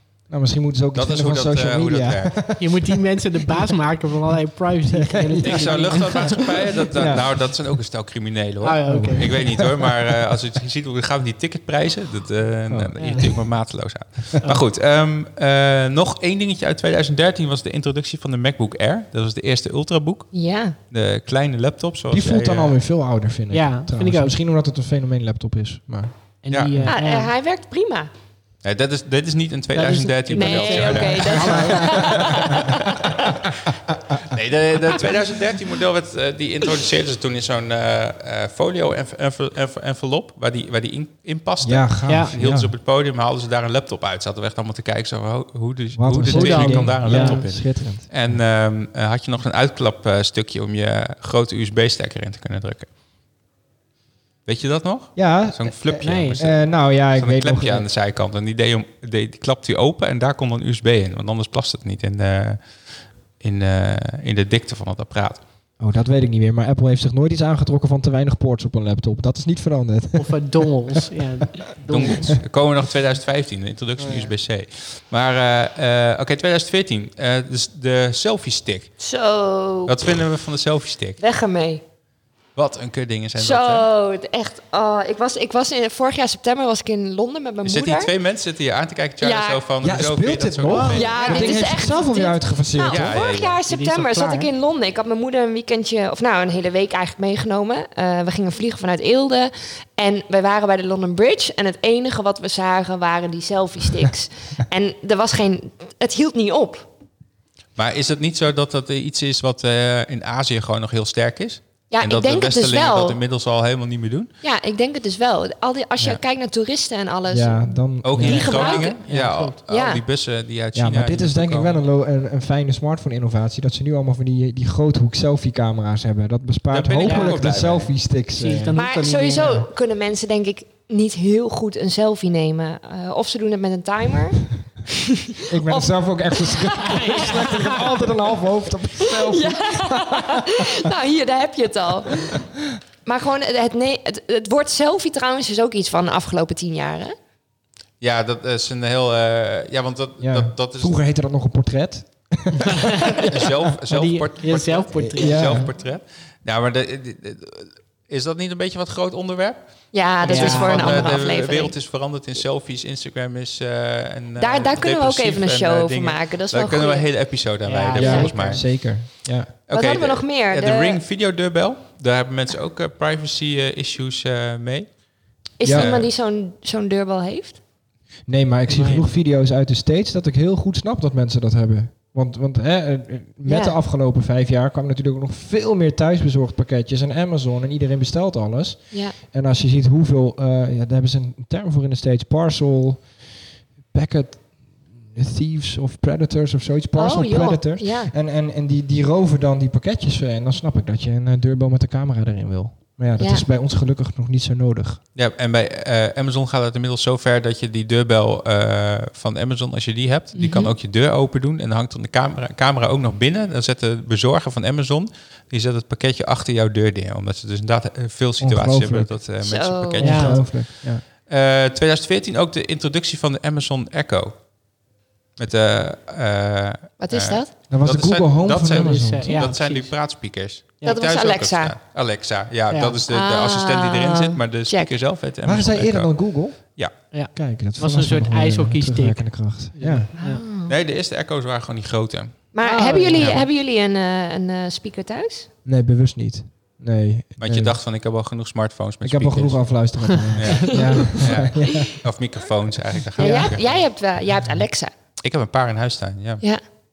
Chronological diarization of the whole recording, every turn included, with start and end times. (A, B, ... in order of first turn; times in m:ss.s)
0:00.3-0:03.7 A
0:00.9-0:02.4 B
0:02.6-0:06.5 C
0:04.8-0:07.6 A
0:05.4-0:20.3 B
0:08.6-0:09.3 C
0:08.9-0:10.0 A
0:12.7-0:13.3 A
0:13.0-0:13.3 C
0:20.3-0:20.8 D
0:20.9-0:22.8 B
0:22.1-0:26.1 A
0:23.5-0:24.4 C
0:26.4-0:27.3 C
0:26.5-0:26.8 B
0:26.9-0:28.1 D
0:28.6-0:32.5 B
0:29.7-0:32.4 C
0:30.3-0:33.3 D
0:31.3-0:32.7 A
0:34.3-0:52.9 B
0:41.6-0:42.7 A
0:42.1-0:42.3 C
0:46.0-0:48.4 A
0:46.3-0:47.4 C
0:54.4-1:02.6 B
0:55.1-0:57.9 A
0:56.0-0:56.4 C
1:03.4-1:05.4 B
1:05.8-1:11.0 A
1:10.2-1:12.3 C
1:11.9-1:18.9 B
1:19.0-1:19.9 D
1:19.8-1:21.2 B
1:21.2-1:21.8 D
1:22.6-1:23.8 B
1:23.4-1:28.1 D
1:27.6-1:31.6 B
1:29.2-1:29.6 D
1:29.8-1:33.2 A
1:30.7-1:31.6 C
1:30.9-1:46.9 D
1:32.9-1:33.6 B
1:33.7-1:34.5 C
1:47.8-1:54.3 B
1:51.9-1:53.2 D
1:54.4-1:59.0 D
1:57.3-1:58.8 A
1:58.0-2:01.8 B
1:58.3-1:59.6 C
1:59.7-2:00.0 D
2:00.7-2:08.8 A
2:06.7-2:07.9 B
2:07.0-2:07.4 C
2:08.3-2:09.6 C
2:08.7-2:14.5 D
2:09.3-2:09.6 A
2:15.3-2:17.7 D
2:15.5-2:20.9 A
2:16.8-2:18.0 C
2:19.0-2:22.4 D
2:23.0-2:27.1 D
2:28.0-2:30.9 B
2:30.2-2:32.9 A
2:32.7-2:33.3 C
2:33.3-2:39.6 B
2:33.9-2:35.6 C
2:35.0-2:35.7 A
2:39.9-2:41.7 D
2:40.2-2:48.6 B
2:40.2-2:41.1 C
2:44.4-2:47.3 D
2:47.6-2:48.4 C
2:48.0-2:48.3 D
2:48.0-2:49.5 A
2:49.7-2:54.9 B
2:49.7-2:51.0 D
2:55.6-2:57.6 D
2:55.6-2:56.1 B
2:55.6-2:55.9 A
2:58.3-3:13.2 A
2:58.7-2:59.0 C
3:03.4-3:03.8 D
3:13.9-3:25.0 A
3:16.9-3:18.1 D
3:23.2-3:23.4 D
3:25.1-3:44.4 B
3:30.3-3:30.7 D
3:38.4-3:39.2 A
3:39.4-3:40.0 D
3:40.0-3:41.0 A
3:40.0-3:40.4 C
3:45.4-3:56.9 B
3:47.0-3:47.5 D
3:47.7-3:49.5 A
3:48.7-3:49.9 C
3:50.8-3:51.8 D
3:52.7-3:53.0 C
3:53.1-3:54.9 D
3:55.4-4:00.1 A
3:57.1-4:00.4 C
4:00.2-4:00.7 D
4:00.7-4:02.4 B
4:02.5-4:05.5 D
4:02.6-4:03.4 C
4:03.2-4:03.4 B
4:05.6-4:07.8 A
4:07.4-4:09.7 B
4:09.0-4:12.0 A
4:10.3-4:13.8 B
4:13.2-4:14.9 D
4:13.2-4:13.4 C
4:15.2-4:16.4 B